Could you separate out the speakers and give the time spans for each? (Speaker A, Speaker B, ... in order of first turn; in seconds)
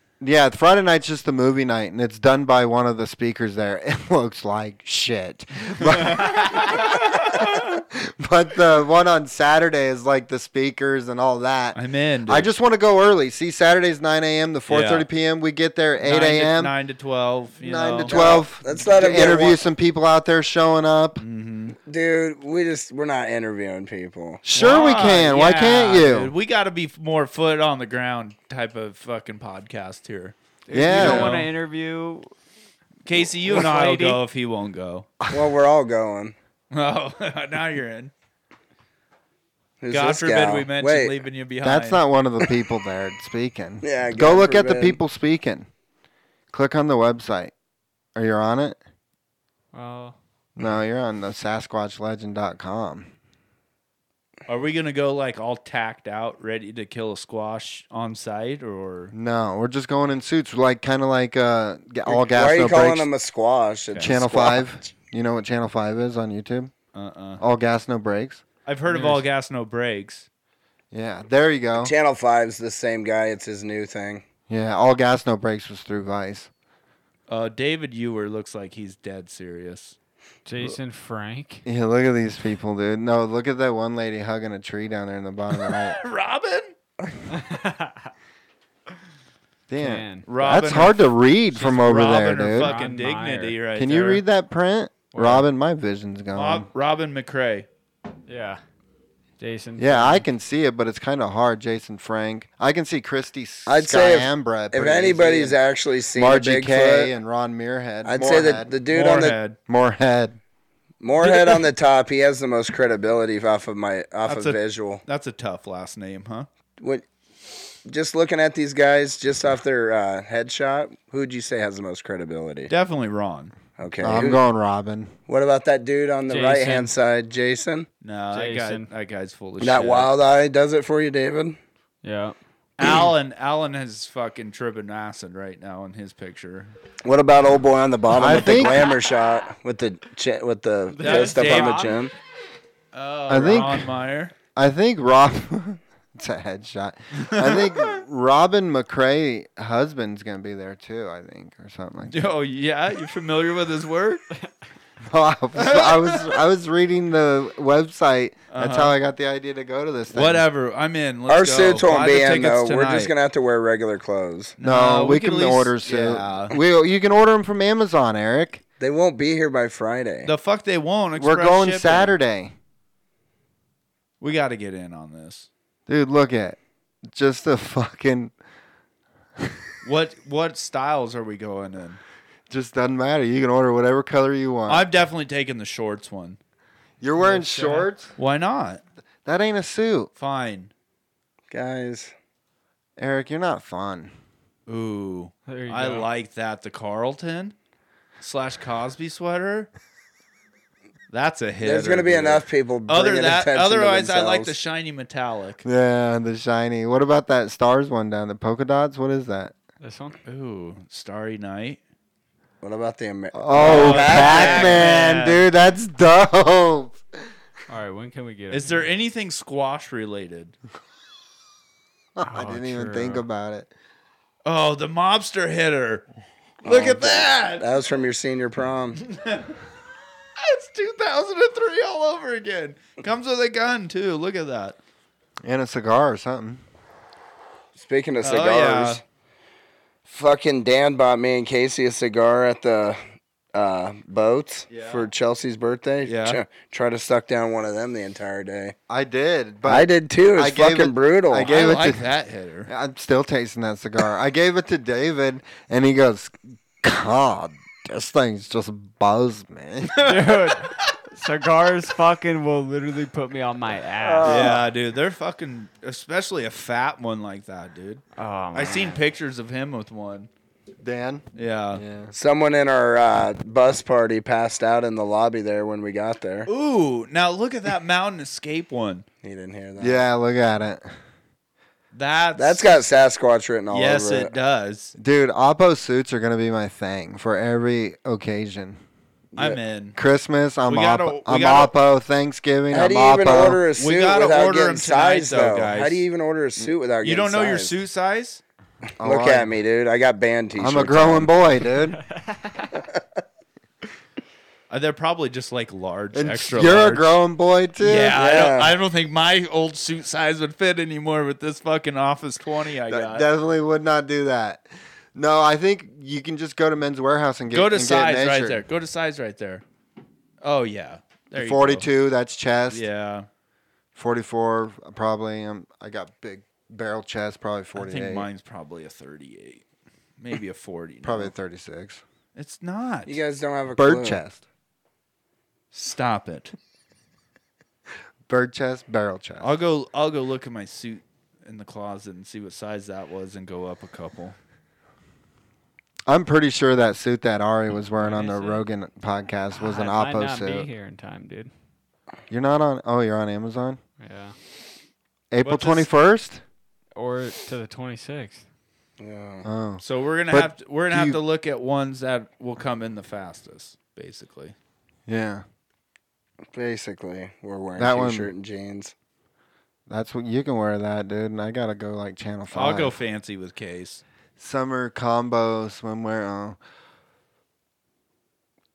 Speaker A: 0.2-16.7, 17.6-21.2, 24.4-26.3, 30.7-31.3, 41.6-45.7, 46.5-47.5, 48.1-48.8, 50.6-53.1, 59.1-63.1, 64.0-66.7, 67.4-68.4, 70.9-71.9, 74.5-76.5, 81.6-86.0, 89.7-92.7, 93.8-96.7, 99.8-105.6, 106.1-108.7, 109.7-110.4, 124.0-125.1, 138.1-138.9, 143.3-143.9, 144.6-152.3, 155.1-160.4, 164.6-168.6, 171.2-172.5, 175.9-176.6, 177.1-178.3, 182.5-184.9, 187.0-188.1, 189.2-190.1, 193.0-194.1, 205.6-209.5, 213.3-217.0, 222.2-223.7, 235.4-236.6, 248.9-252.1, 252.7-260.0, 270.8-272.1, 279.8-280.9, 285.0-288.8, 289.9-293.6, 299.0-299.5, 300.6-302.0, 306.1-308.2, 312.9-318.6, 321.3-322.8, 323.9-328.3, 331.0-332.0, 333.7-334.4, 338.3-339.5, 346.1-350.7, 352.3-353.8, 355.3-356.4, 359.4-361.2, 365.1-365.4, 367.8-368.3, 369.9-373.0, 374.4-376.6
Speaker B: 5.8-7.7, 11.7-12.5, 14.7-15.1, 16.0-18.4, 19.0-19.3, 21.2-21.8, 24.5-31.5, 33.0-35.1, 36.7-38.1, 39.9-42.0, 54.5-59.1, 63.9-64.2, 66.9-67.4, 68.7-70.3, 77.3-80.0, 85.7-86.7, 90.2-94.2, 96.3-97.7, 108.9-109.6, 111.2-111.6, 114.2-116.5, 122.7-123.5, 128.0-130.1, 132.8-136.7, 141.0-142.0, 142.9-144.3, 147.2-147.9, 152.1-154.2, 155.6-156.4, 158.5-158.9, 160.1-163.1, 164.6-166.6, 170.2-172.1, 174.2-175.5, 179.8-182.0, 184.7-186.4, 188.2-188.8, 190.2-190.7, 194.7-197.5, 198.2-199.7, 201.1-205.6, 210.2-211.8, 213.5-215.4, 218.5-220.5, 224.4-226.0, 226.6-227.7, 229.0-229.5, 230.4-234.8, 238.2-239.0, 244.7-245.1, 246.0-246.4, 251.4-252.7, 260.0-260.5, 264.2-268.0, 268.5-270.3, 271.4-271.8, 276.5-279.0, 281.9-282.9, 283.7-284.9, 289.4-289.9, 290.6-291.7, 293.8-296.0, 297.0-298.4, 304.7-307.1, 307.8-313.3, 317.5-319.6, 320.4-321.9, 322.7-323.3, 327.8-329.6, 330.2-331.3, 332.4-333.2, 335.7-336.5, 339.4-344.4, 347.9-348.6, 355.4-355.9, 359.8-364.5, 372.5-374.0
Speaker C: 18.1-19.6, 21.9-24.4, 35.3-36.4, 39.8-41.1, 43.8-45.0, 62.1-64.7, 71.8-74.2, 103.7-107.1, 108.0-109.4, 111.0-115.0, 116.8-117.0, 117.8-122.7, 123.8-124.4, 125.3-127.9, 129.6-131.6, 137.0-142.1, 161.3-164.6, 168.8-170.3, 191.5-192.1, 201.6-204.5, 212.6-214.8, 226.6-229.0, 237.8-239.0, 240.1-243.0, 243.5-248.7, 249.7-251.5, 264.0-264.6, 272.1-276.5, 279.2-280.0, 282.4-284.3, 292.7-297.7, 299.0-301.3, 308.1-308.7, 333.1-334.2, 359.0-359.5, 366.5-368.9
Speaker D: 30.6-32.3, 33.5-34.2, 49.7-50.2, 68.9-69.2, 80.5-81.6, 87.3-88.1, 89.8-90.2, 92.5-93.5, 95.1-95.4, 98.3-98.6, 99.4-100.2, 126.3-126.9, 128.3-128.9, 132.0-132.3, 140.9-142.0, 187.2-187.9, 195.5-196.1, 209.8-210.2, 217.7-218.9, 222.2-223.2, 260.0-264.5, 268.1-269.0, 302.2-302.7, 349.5-351.5, 354.0-354.3, 356.9-358.4